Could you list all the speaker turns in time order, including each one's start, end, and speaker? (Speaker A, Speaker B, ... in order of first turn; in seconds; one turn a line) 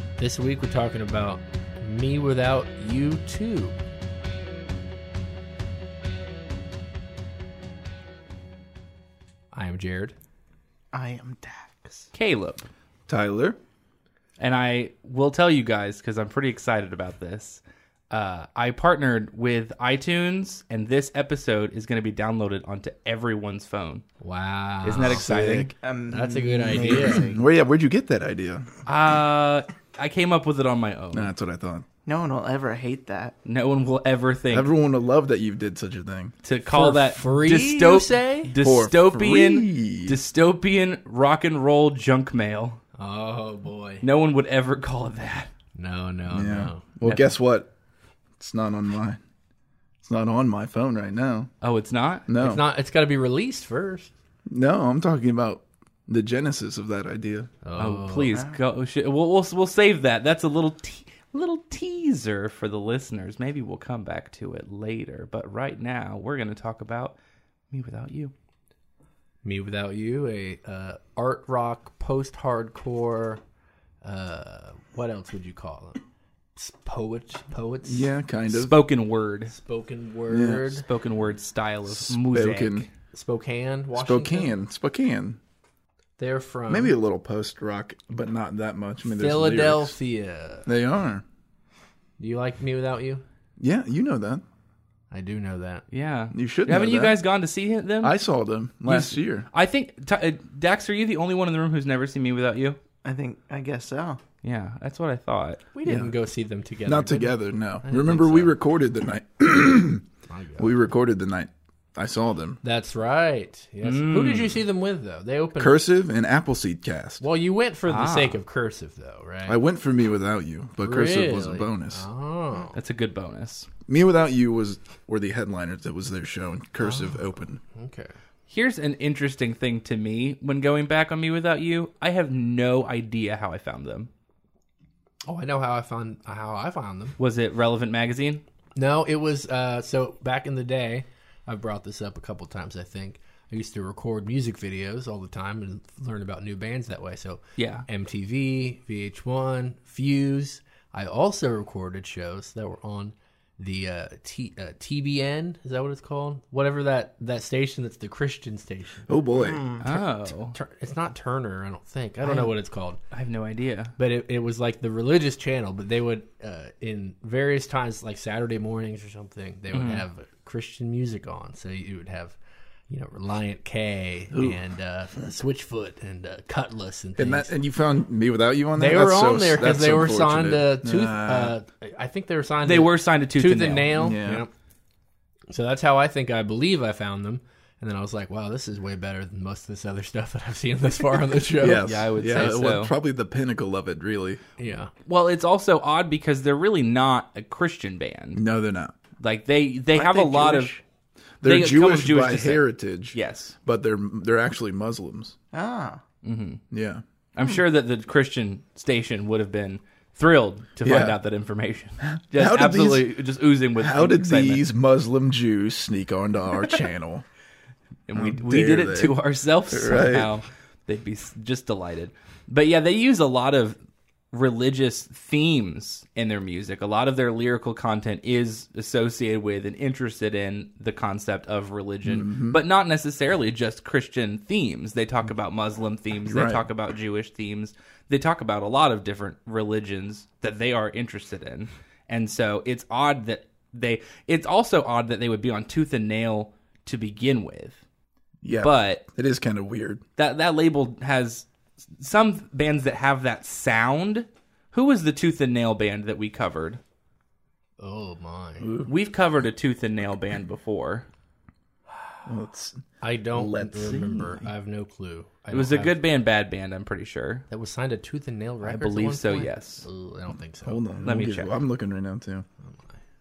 Speaker A: 0.2-3.8
Speaker A: 9.5-10.2
Speaker B: 10.9-12.1
Speaker C: 12.1-12.7
Speaker D: 13.1-13.6
Speaker C: 14.4-24.0
Speaker A: 24.2-27.3
Speaker C: 24.8-25.7
Speaker D: 25.2-25.7
Speaker B: 25.8-27.4
Speaker D: 26.7-28.7
Speaker C: 28.9-31.3
Speaker D: 31.1-31.9
Speaker B: 32.0-33.3
Speaker C: 33.4-34.7
Speaker D: 34.5-36.3
Speaker C: 36.4-42.8
Speaker A: 36.7-38.5
Speaker D: 38.6-40.2
Speaker A: 43.0-44.0
Speaker C: 44.0-45.5
Speaker A: 45.8-46.8
Speaker D: 46.3-47.7
Speaker C: 47.0-47.3
Speaker D: 48.4-49.2
Speaker D: 50.0-51.5
Speaker C: 51.6-52.3
Speaker D: 52.3-52.6
Speaker A: 52.4-54.1
Speaker D: 54.5-57.5
Speaker A: 57.6-58.3
Speaker C: 57.8-67.2
Speaker B: 58.3-58.6
Speaker C: 67.7-68.3
Speaker A: 69.4-73.4
Speaker A: 74.0-76.0
Speaker A: 76.5-78.1
Speaker D: 77.8-78.8
Speaker C: 78.5-79.5
Speaker A: 79.5-80.8
Speaker D: 80.3-80.8
Speaker C: 80.8-82.9
Speaker D: 81.9-82.8
Speaker A: 83.1-84.5
Speaker D: 83.9-85.4
Speaker A: 86.2-86.9
Speaker D: 86.7-89.9
Speaker A: 89.0-90.7
Speaker D: 90.7-91.2
Speaker A: 92.2-93.2
Speaker D: 93.6-94.4
Speaker A: 95.1-95.8
Speaker C: 95.9-98.2
Speaker D: 96.3-97.2
Speaker D: 98.0-99.5
Speaker C: 98.8-102.8
Speaker B: 103.0-104.2
Speaker C: 104.4-106.0
Speaker A: 105.7-108.5
Speaker D: 106.8-110.0
Speaker A: 110.3-110.7
Speaker D: 110.6-112.6
Speaker A: 112.6-115.8
Speaker C: 113.8-114.6
Speaker D: 115.6-117.2
Speaker A: 117.2-119.6
Speaker C: 117.9-118.4
Speaker D: 119.5-122.0
Speaker A: 120.8-122.7
Speaker C: 122.7-123.7
Speaker D: 123.9-127.6
Speaker A: 126.8-128.1
Speaker C: 128.5-134.1
Speaker A: 135.3-137.2
Speaker C: 137.2-138.4
Speaker A: 138.8-159.1
Speaker C: 147.6-147.8
Speaker D: 159.1-160.0
Speaker B: 159.3-159.8
Speaker C: 159.8-160.6
Speaker A: 160.5-163.0
Speaker C: 162.2-162.5
Speaker C: 163.1-163.9
Speaker A: 164.0-172.4
Speaker C: 169.7-170.0
Speaker A: 172.9-177.5
Speaker D: 174.3-174.6
Speaker D: 177.2-181.6
Speaker A: 178.8-184.5
Speaker C: 182.6-184.1
Speaker D: 183.9-184.4
Speaker A: 185.5-191.8
Speaker D: 191.6-194.4
Speaker C: 191.8-192.9
Speaker A: 194.6-194.9
Speaker C: 195.1-198.4
Speaker D: 198.3-198.9
Speaker C: 199.2-200.8
Speaker B: 200.3-200.7
Speaker D: 201.4-205.3
Speaker C: 201.4-203.5
Speaker B: 205.5-206.0
Speaker C: 206.2-206.6
Speaker D: 206.7-207.0
Speaker C: 207.3-214.6
Speaker D: 210.8-211.2
Speaker D: 212.0-213.1
Speaker D: 213.8-217.2
Speaker C: 218.1-223.8
Speaker D: 218.1-219.2
Speaker D: 219.7-220.3
Speaker C: 224.3-247.8
Speaker D: 232.0-232.6
Speaker D: 236.2-236.7
Speaker D: 248.4-250.0
Speaker C: 248.5-249.0
Speaker C: 250.2-256.8
Speaker A: 257.8-258.7
Speaker D: 258.6-258.9
Speaker C: 258.9-261.1
Speaker D: 262.2-264.4
Speaker A: 263.0-266.0
Speaker C: 265.5-267.4
Speaker A: 267.5-270.9
Speaker C: 268.6-269.8
Speaker D: 270.6-272.4
Speaker C: 271.0-271.6